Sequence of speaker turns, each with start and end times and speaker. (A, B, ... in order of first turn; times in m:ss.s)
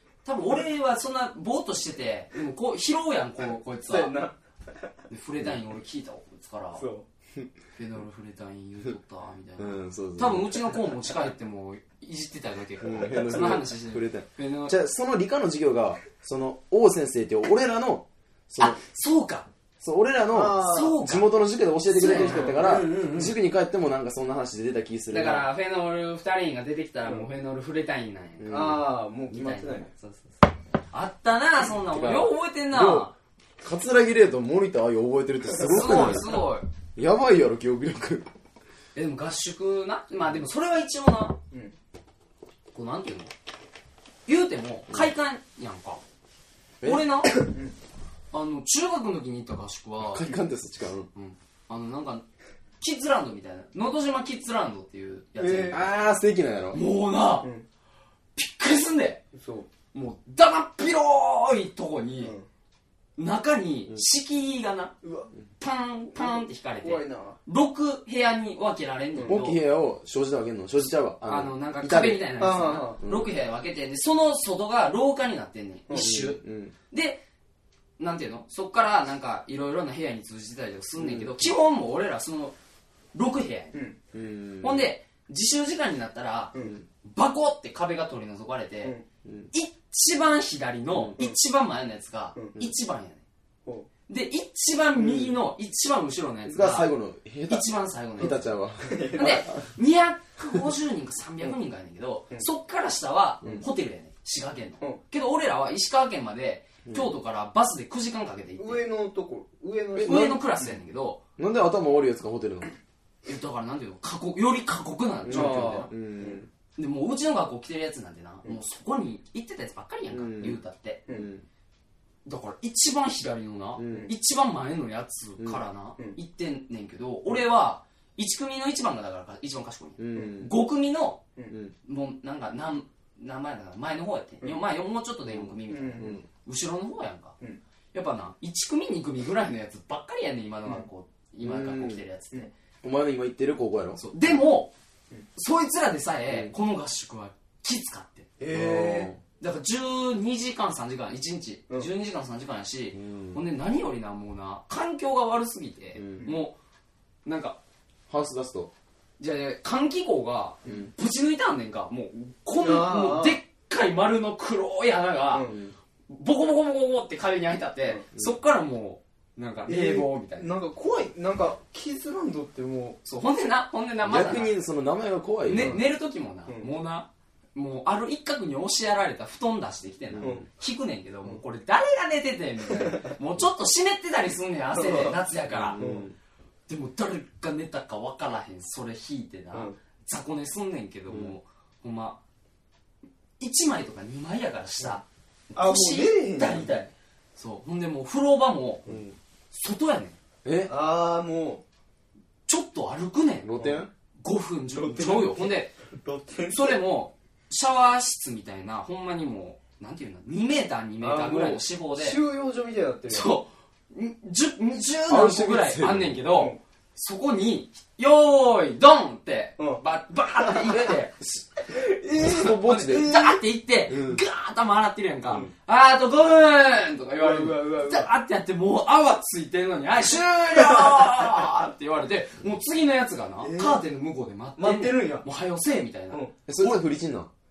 0:00.2-0:04.2 A
0:03.8-0:04.8 B
0:05.1-0:06.8 A
0:06.7-0:07.0 B
0:07.8-0:14.8 A
0:09.6-0:10.7 C
0:12.8-0:18.8 C
0:18.6-0:19.5 A
0:19.8-0:25.5 C
0:20.3-0:21.0 B
0:20.5-0:21.3 A
0:21.9-0:23.3 A
0:22.0-0:23.3 B
0:25.1-0:33.1 A
0:28.4-0:28.8 C
0:28.5-0:29.9 B
0:31.9-0:33.1 C
0:33.6-0:36.4 C
0:35.6-0:36.6 A
0:35.8-0:36.2 B
0:37.0-0:38.3 C
0:38.9-0:41.4 A
0:42.7-0:43.3 A
0:44.2-0:46.0 A
0:46.8-0:47.3 A
0:47.3-0:47.7 B
0:48.3-0:50.3 A
0:50.0-0:51.1 C
0:51.1-0:52.2 A
0:52.8-0:55.9 A
0:55.4-0:55.9 B
0:55.7-0:56.8 C
0:56.7-0:57.5 A
0:58.4-0:59.2 A
0:59.3-0:59.7 B
0:59.9-1:02.3 A
1:02.2-1:02.4 B
1:03.2-1:04.9 A
1:05.0-1:05.3 B
1:05.6-1:09.6 A
1:06.1-1:07.4 B
1:09.2-1:12.3 C
1:11.2-1:17.2 A
1:12.4-1:13.0 B
1:13.0-1:13.3 C
1:15.9-1:16.2 B
1:15.9-1:16.7 C
1:18.0-1:22.5 A
1:21.0-1:21.5 C
1:23.1-1:23.8 A
1:24.1-1:24.8 C
1:24.6-1:29.0 A
1:26.5-1:26.8 B
1:29.2-1:29.5 C
1:29.5-1:33.2 A
1:34.1-1:36.9 A
1:36.4-1:39.6 C
1:37.5-1:38.4 A
1:38.8-1:39.4 B
1:39.2-1:48.8 A
1:46.8-1:47.1 C
1:48.6-1:50.8 B
1:49.9-1:50.4 C
1:50.0-1:51.2 A
1:51.4-1:52.7 C
1:53.2-1:55.9 A
1:55.2-1:56.5 C
1:55.3-1:56.4 B
1:56.7-2:01.0 A
2:00.1-2:01.4 C
2:02.2-2:11.2 A
2:03.8-2:04.1 C
2:03.8-2:04.1 B
2:10.0-2:10.5 C
2:11.8-2:17.4 A
2:15.3-2:16.2 C
2:15.7-2:16.2 B
2:17.9-2:22.5 A
2:21.4-2:22.0 C
2:22.8-2:24.0 C
2:24.0-2:24.7 A
2:25.3-2:28.3 A
2:28.4-2:29.1 B
2:28.5-2:29.2 C
2:29.4-2:36.6 A
2:32.9-2:33.4 C
2:36.0-2:36.3 C
2:37.2-2:37.6 A
2:38.1-2:38.7 C
2:39.2-2:45.5 A
2:42.6-2:43.4 B
2:45.3-2:45.6 B
2:45.5-2:45.7 C
2:46.1-2:50.5 A
2:49.6-2:53.0 B
2:53.0-2:54.5 A
2:54.0-2:55.8 C
2:55.4-3:05.8 A
2:55.5-2:55.8 B
2:56.5-2:56.7 B
3:00.1-3:00.4 C
3:00.2-3:00.4 B
3:02.7-3:03.1 B
3:04.7-3:05.2 B
3:05.5-3:06.1 C
3:05.8-3:06.1 B
3:06.7-3:12.2 A
3:11.1-3:11.4 C
3:13.4-3:18.9 A
3:15.5-3:16.8 B
3:18.9-3:19.2 C
3:19.5-3:20.2 A
3:20.4-3:20.7 C
3:20.7-3:21.6 B
3:22.5-3:23.6 A
3:23.4-3:23.9 C
3:24.2-3:25.7 A
3:24.7-3:26.8 B
3:26.5-3:32.2 A
3:31.0-3:33.4 B
3:33.1-3:41.1 A
3:35.1-3:36.2 C
3:36.3-3:36.6 B
3:40.4-3:40.8 B
3:40.7-3:41.4 C
3:41.7-3:43.4 B
3:42.2-3:43.1 C
3:42.2-3:56.7 A
3:43.9-3:44.2 C
3:47.2-3:48.1 B
3:50.2-3:51.4 B
3:53.4-3:53.9 B
3:54.6-3:55.3 B
3:56.5-3:57.3 C